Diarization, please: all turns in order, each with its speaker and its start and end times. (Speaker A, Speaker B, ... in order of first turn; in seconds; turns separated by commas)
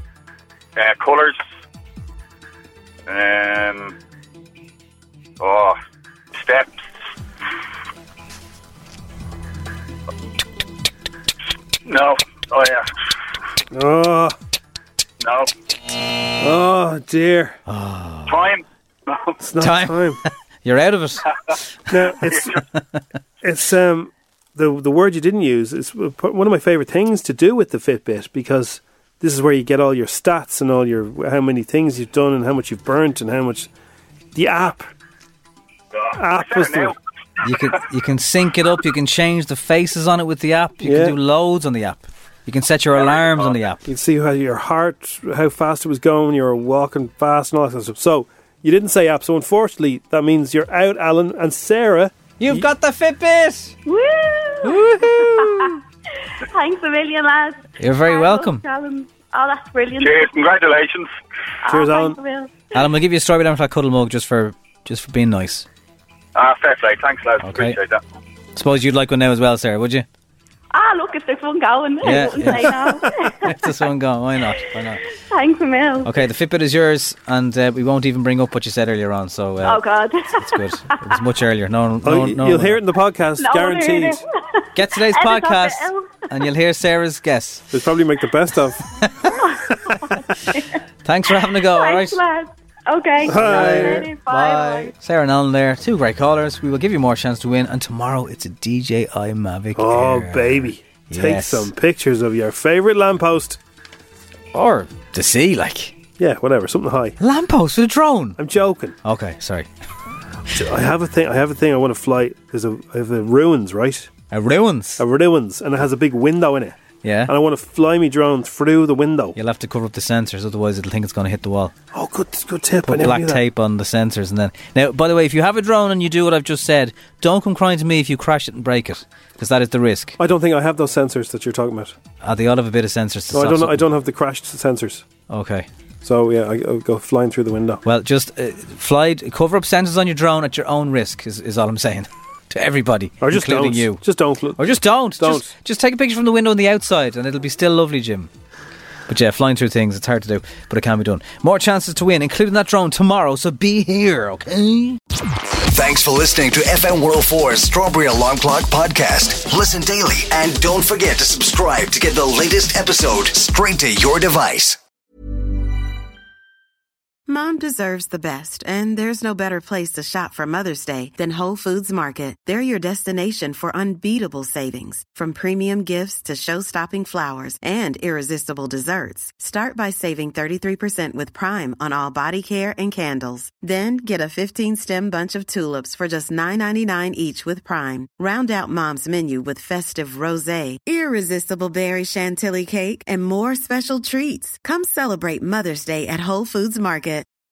Speaker A: 0.8-1.4, Speaker A: 3.1-3.9, Speaker A: 5.4-5.8, Speaker A: 6.4-6.8, Speaker A: 11.8-12.9, Speaker B: 13.7-14.3, Speaker A: 15.2-15.5, Speaker B: 16.4-17.6, Speaker C: 17.7-18.4, Speaker A: 18.3-19.3, Speaker B: 19.4-20.2, Speaker C: 19.6-21.3, Speaker B: 21.9-22.6, Speaker C: 22.6-23.0, Speaker B: 23.4-33.7, Speaker B: 34.3-34.9, Speaker A: 36.1-37.0, Speaker B: 36.2-37.0, Speaker C: 37.4-43.9, Speaker B: 40.8-41.2, Speaker A: 43.0-43.5, Speaker B: 43.8-52.7, Speaker C: 52.4-53.7, Speaker D: 53.9-55.8, Speaker C: 54.6-55.8, Speaker D: 56.4-60.3, Speaker C: 57.8-58.6, Speaker A: 60.0-61.1, Speaker D: 61.6-62.5, Speaker B: 61.7-62.2, Speaker C: 62.7-65.7, Speaker A: 66.3-68.0, Speaker C: 67.4-67.8, Speaker C: 68.5-70.0, Speaker D: 70.7-73.5, Speaker C: 72.0-75.0, Speaker D: 75.3-76.1, Speaker C: 76.0-79.8, Speaker D: 79.6-81.2, Speaker C: 80.4-82.8, Speaker B: 82.0-84.2, Speaker D: 83.4-86.2, Speaker C: 84.7-87.7, Speaker B: 87.7-88.8, Speaker C: 89.0-89.3, Speaker D: 89.3-90.8, Speaker C: 91.0-92.2, Speaker D: 91.6-94.9, Speaker B: 93.2-94.1, Speaker C: 93.2-101.7, Speaker B: 99.8-103.6, Speaker C: 104.5-106.0, Speaker B: 106.2-107.2, Speaker C: 107.2-108.4, Speaker B: 108.4-109.0, Speaker C: 109.0-109.7, Speaker B: 110.5-114.1, Speaker C: 114.3-115.0, Speaker B: 115.0-116.8, Speaker C: 117.0-117.3, Speaker B: 117.3-119.4, Speaker C: 119.4-121.7, Speaker B: 121.9-123.4, Speaker C: 122.8-130.2, Speaker B: 130.2-131.9, Speaker C: 132.2-133.8, Speaker B: 133.3-135.1, Speaker C: 135.3-135.7, Speaker B: 136.0-137.8, Speaker C: 137.8-144.0, Speaker B: 143.2-145.5, Speaker C: 144.6-148.3, Speaker C: 149.1-155.0, Speaker E: 155.7-164.8, Speaker F: 167.3-197.2